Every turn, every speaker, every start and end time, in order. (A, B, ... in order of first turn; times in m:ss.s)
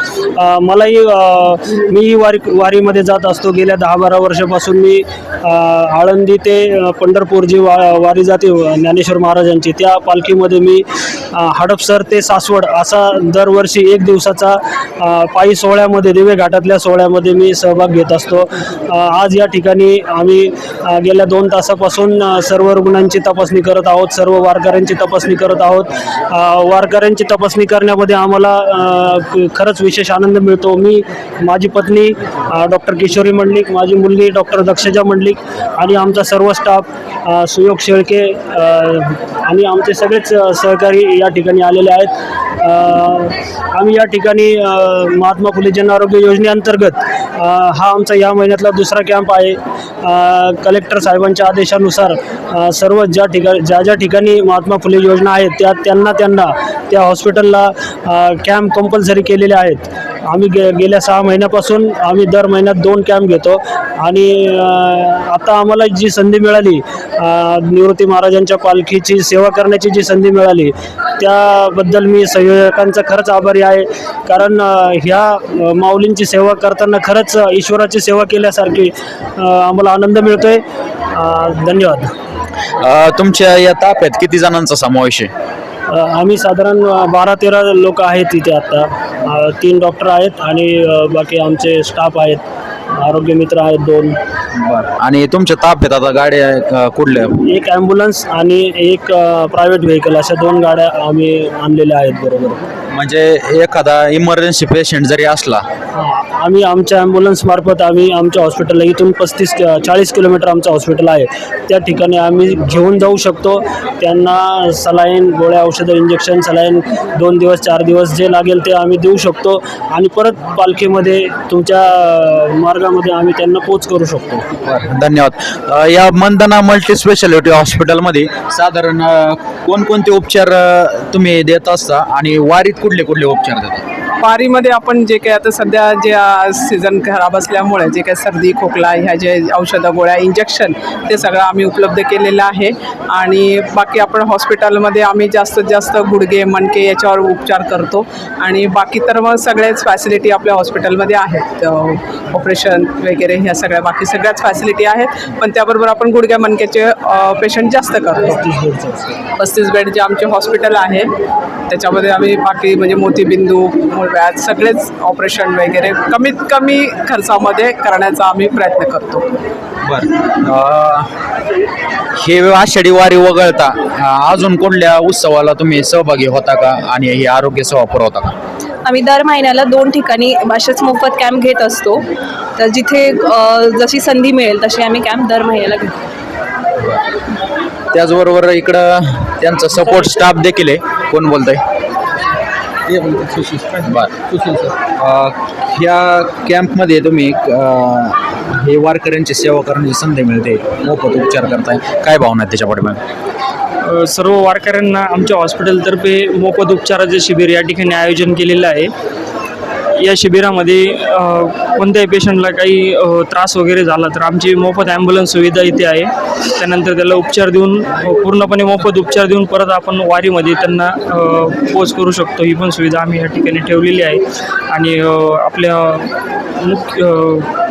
0:00.3-1:22.1 A
1:22.8-1:25.3 B
1:25.9-1:34.2 A
1:34.6-1:37.3 B
1:37.4-1:42.6 A
1:42.9-1:45.6 B
1:45.9-2:04.4 A
2:04.6-2:13.8 B
2:14.2-2:38.4 C
2:38.2-2:39.2 A
2:39.4-2:41.0 C
2:41.7-2:49.2 C
2:49.8-2:51.1 B
2:52.2-2:58.4 B
2:58.8-3:06.0 D
3:07.9-3:11.6 B
3:12.9-3:23.0 B
3:23.8-3:28.9 E
3:30.0-3:47.5 E